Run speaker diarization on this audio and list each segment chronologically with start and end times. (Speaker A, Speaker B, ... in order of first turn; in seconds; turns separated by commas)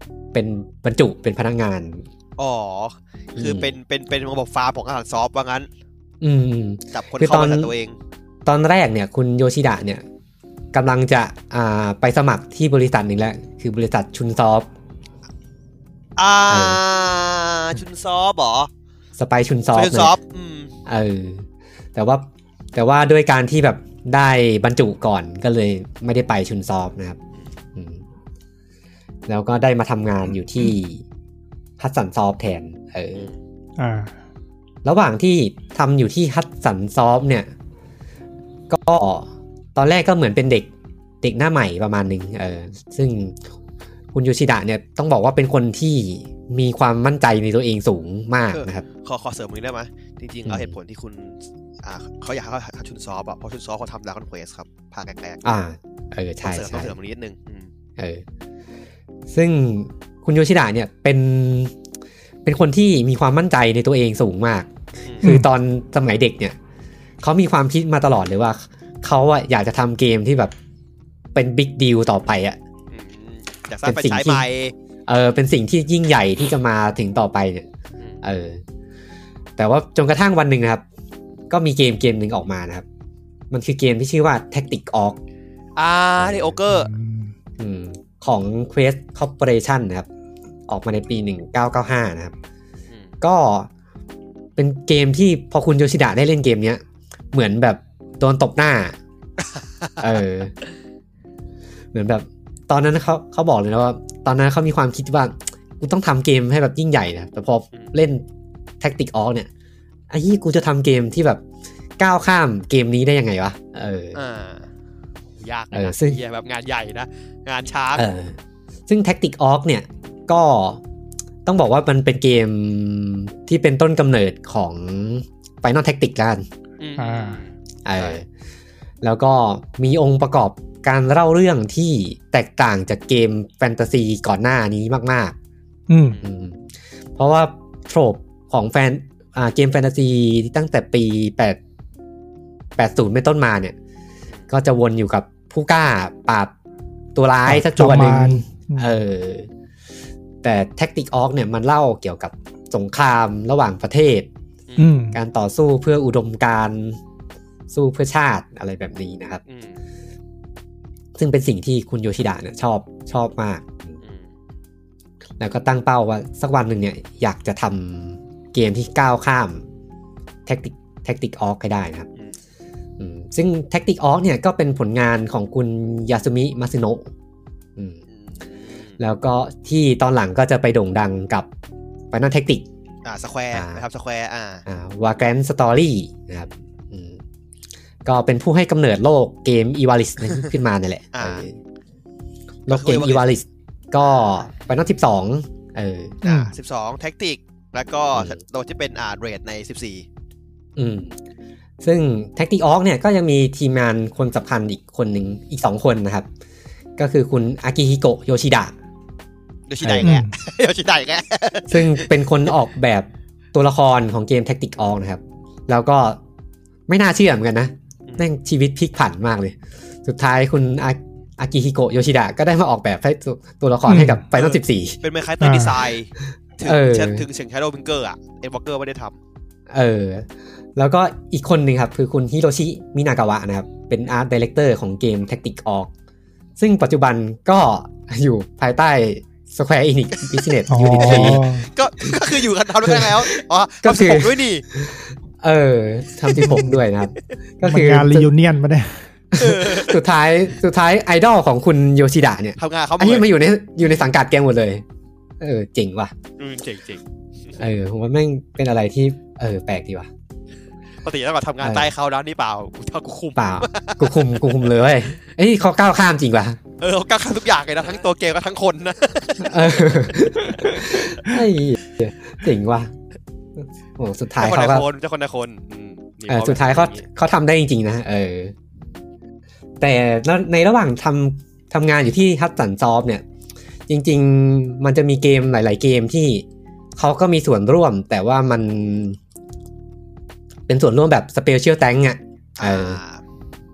Speaker A: 0.3-2.0, Speaker B: 2.4-5.7, Speaker A: 3.4-3.7, Speaker A: 6.2-7.7, Speaker B: 6.9-8.0, Speaker A: 8.4-10.0, Speaker A: 10.7-14.7, Speaker B: 16.2-18.7, Speaker A: 16.5-16.8, Speaker A: 19.2-20.1, Speaker B: 19.7-20.7, Speaker A: 20.9-27.2, Speaker A: 27.7-28.0, Speaker A: 29.3-31.0, Speaker A: 31.8-33.3, Speaker C: 33.8-34.1, Speaker A: 34.8-37.5, Speaker A: 38.7-40.7, Speaker A: 41.2-43.4, Speaker A: 44.1-48.9, Speaker B: 48.5-55.4, Speaker A: 50.5-50.8, Speaker A: 55.4-56.9, Speaker B: 56.4-57.7, Speaker A: 58.0-58.2, Speaker A: 59.3-61.7, Speaker A: 62.4-64.7, Speaker B: 65.1-65.3, Speaker A: 65.2-66.5, Speaker A: 67.2-70.5, Speaker A: 71.3-72.6, Speaker B: 72.9-74.7, Speaker A: 73.8-74.4, Speaker A: 75.1-77.7, Speaker A: 78.2-78.6, Speaker A: 79.6-80.8, Speaker A: 81.5-82.8, Speaker A: 83.5-85.2, Speaker B: 85.8-86.9, Speaker A: 86.2-86.6, Speaker C: 86.7-87.3, Speaker A: 87.6-90.1, Speaker A: 90.7-92.3, Speaker A: 93.2-93.7, Speaker A: 94.5-96.8, Speaker A: 97.3-99.0, Speaker B: 99.5-100.1, Speaker A: 100.0-100.5, Speaker A: 101.9-108.2, Speaker A: 108.8-109.5, Speaker A: 110.1-111.4, Speaker A: 112.0-114.2, Speaker B: 114.1-114.7, Speaker B: 115.4-118.1, Speaker A: 115.7-116.2, Speaker A: 117.9-120.8, Speaker A: 121.5-126.5, Speaker B: 126.8-128.2, Speaker C: 127.0-127.4, Speaker A: 127.8-128.2, Speaker A: 129.0-135.3, Speaker C: 135.9-136.2, Speaker A: 136.2-136.6, Speaker A: 137.1-141.6, Speaker A: 142.8-143.7, Speaker A: 144.5-146.5, Speaker A: 147.1-149.5, Speaker C: 147.4-148.9, Speaker A: 150.4-154.3, Speaker B: 154.7-155.0, Speaker C: 154.8-155.2, Speaker A: 155.1-157.0, Speaker A: 157.7-159.4, Speaker B: 159.5-159.8, Speaker A: 161.1-164.0, Speaker B: 164.0-164.3, Speaker A: 165.4-169.6, Speaker A: 170.4-172.1, Speaker A: 173.0-177.1, Speaker B: 178.1-179.0, Speaker A: 179.0-181.5, Speaker A: 182.1-182.6, Speaker B: 183.0-184.6, Speaker A: 183.5-183.8, Speaker A: 184.7-187.2, Speaker A: 188.0-191.6, Speaker B: 191.1-191.4, Speaker A: 192.7-196.2, Speaker B: 192.7-193.3, Speaker C: 196.2-196.5, Speaker B: 196.2-200.1, Speaker A: 200.8-201.1, Speaker A: 201.8-206.3, Speaker A: 207.0-208.7, Speaker B: 209.7-212.1, Speaker A: 209.8-210.2, Speaker C: 210.0-210.3, Speaker A: 211.7-216.2, Speaker A: 216.9-225.0, Speaker C: 223.9-224.2, Speaker B: 224.3-229.2, Speaker C: 225.4-225.7, Speaker A: 226.6-227.2, Speaker A: 229.7-235.9, Speaker A: 236.6-241.5, Speaker C: 240.7-241.7, Speaker B: 240.9-244.7, Speaker A: 242.8-243.3, Speaker A: 243.8-248.3, Speaker B: 246.3-246.6, Speaker C: 246.3-246.8, Speaker C: 247.6-249.1, Speaker A: 249.3-254.8, Speaker B: 249.4-250.0, Speaker B: 252.6-253.3, Speaker A: 255.4-256.1, Speaker B: 256.4-257.5, Speaker A: 257.6-260.1, Speaker B: 261.0-264.8, Speaker A: 261.6-261.9, Speaker A: 263.4-266.6, Speaker B: 266.8-271.1, Speaker A: 269.4-272.9, Speaker A: 273.6-274.9, Speaker B: 274.4-277.0, Speaker A: 276.3-278.5, Speaker A: 279.8-283.2, Speaker A: 283.9-286.4, Speaker A: 287.0-289.2, Speaker A: 290.7-293.0, Speaker B: 292.6-293.2